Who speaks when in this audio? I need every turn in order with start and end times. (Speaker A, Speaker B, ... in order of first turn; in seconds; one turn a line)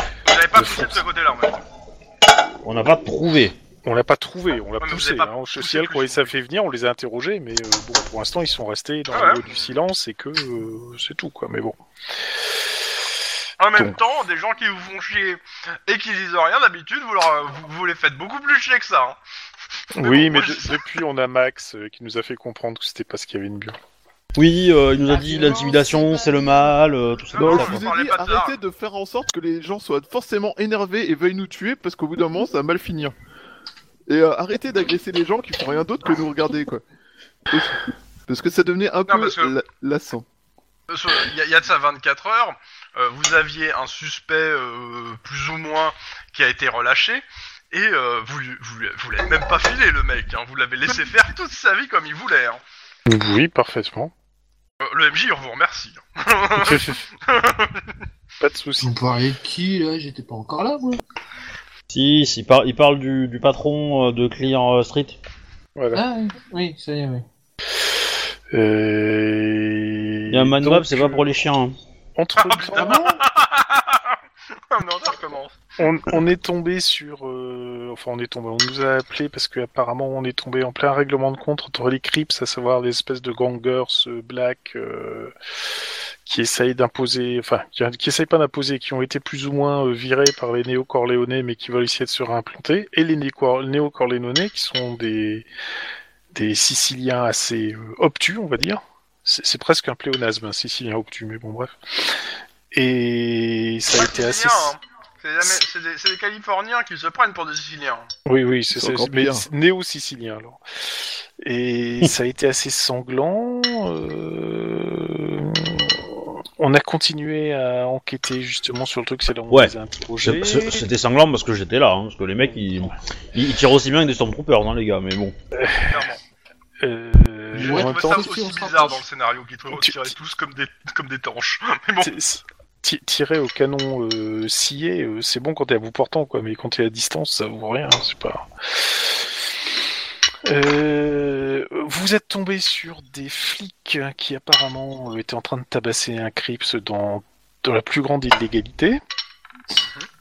Speaker A: 0.3-1.6
Speaker B: 0.5-1.0
Speaker C: 2.6-3.5
Speaker B: 3.8-11.8
Speaker A: 4.8-6.3
Speaker A: 9.1-9.7
Speaker A: 13.6-19.2
Speaker B: 13.8-14.0
Speaker B: 20.0-23.8
Speaker A: 20.0-20.8
Speaker C: 24.4-27.8
Speaker D: 25.1-26.7
Speaker A: 27.2-28.6
Speaker E: 27.4-33.1
Speaker E: 34.1-36.8
Speaker E: 37.5-40.2
Speaker A: 39.1-39.5
Speaker A: 40.9-52.6
Speaker B: 53.1-54.1
Speaker A: 54.8-57.9
Speaker B: 56.6-57.0
Speaker B: 58.4-58.9
Speaker D: 58.8-61.0
Speaker C: 61.9-65.2
Speaker B: 65.8-66.0
Speaker D: 65.9-67.2
Speaker B: 68.5-71.3
Speaker C: 70.3-71.7
Speaker B: 72.2-73.2
Speaker A: 72.4-74.2
Speaker A: 74.7-75.5
Speaker B: 75.8-85.3
Speaker B: 86.2-95.5
Speaker B: 96.3-102.2
Speaker B: 102.7-104.7
Speaker A: 103.9-108.1
Speaker B: 108.2-120.8
Speaker E: 108.7-109.5
Speaker C: 119.5-125.3
Speaker B: 125.5-126.0
Speaker A: 125.9-126.2
Speaker B: 126.8-128.4
Speaker A: 127.5-132.2
Speaker D: 127.6-129.0
Speaker B: 129.7-130.1
Speaker B: 132.0-139.4
Speaker B: 140.4-149.0